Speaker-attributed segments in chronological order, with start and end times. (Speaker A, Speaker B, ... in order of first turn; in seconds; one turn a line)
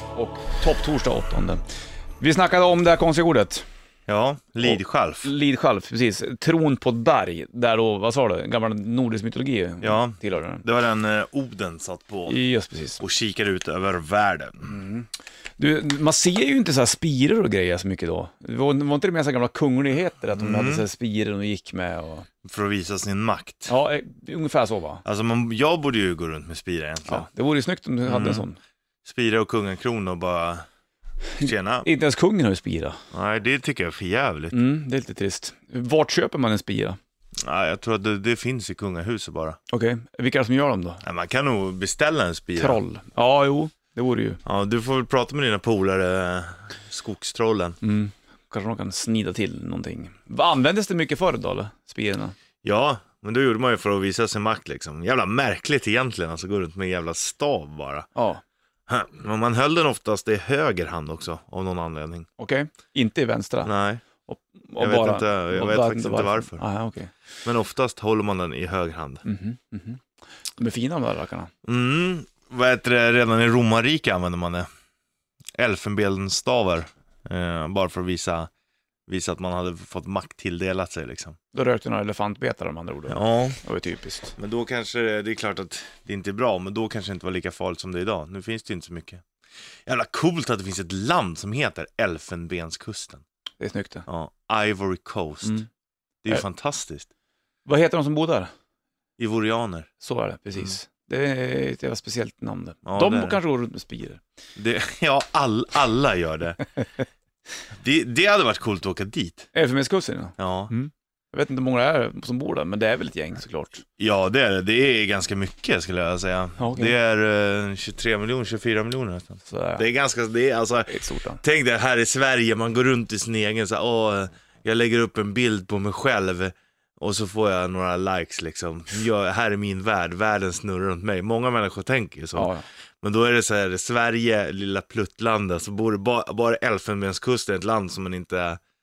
Speaker A: 0.1-1.6
Speaker A: 2.2-3.6
Speaker B: 4.1-5.3
Speaker A: 4.7-10.6
Speaker B: 9.8-12.4
Speaker A: 12.3-13.0
Speaker B: 13.0-14.8
Speaker A: 14.7-22.3
Speaker B: 20.4-20.9
Speaker B: 22.4-23.7
Speaker A: 23.7-25.0
Speaker B: 25.0-27.3
Speaker A: 27.1-28.6
Speaker B: 28.1-28.5
Speaker B: 29.1-30.7
Speaker B: 31.4-31.9
Speaker A: 31.4-33.0
Speaker B: 33.1-34.6
Speaker A: 34.5-37.0
Speaker B: 37.4-39.6
Speaker A: 39.7-41.0
Speaker B: 41.0-42.8
Speaker A: 42.6-44.4
Speaker B: 44.5-47.8
Speaker A: 47.8-52.4
Speaker B: 52.6-58.1
Speaker A: 58.2-58.4
Speaker B: 58.9-62.3
Speaker A: 62.4-63.7
Speaker B: 63.6-64.0
Speaker A: 64.3-67.1
Speaker B: 64.8-66.6
Speaker B: 67.5-69.2
Speaker A: 69.2-70.0
Speaker A: 70.6-71.5
Speaker B: 71.6-74.7
Speaker B: 75.6-78.5
Speaker B: 79.1-81.4
Speaker A: 81.5-84.4
Speaker B: 83.1-83.6
Speaker B: 84.4-89.2
Speaker B: 89.9-93.2
Speaker A: 93.6-94.1
Speaker B: 94.1-95.6
Speaker B: 96.2-97.1
Speaker A: 97.7-98.5
Speaker B: 99.2-99.9
Speaker A: 100.0-104.2
Speaker B: 102.8-103.4
Speaker B: 104.6-106.6
Speaker B: 107.8-109.5
Speaker A: 109.5-113.8
Speaker B: 110.4-110.7
Speaker B: 114.0-138.6
Speaker A: 116.6-116.9
Speaker A: 119.5-119.8
Speaker A: 120.9-121.4
Speaker A: 132.4-132.7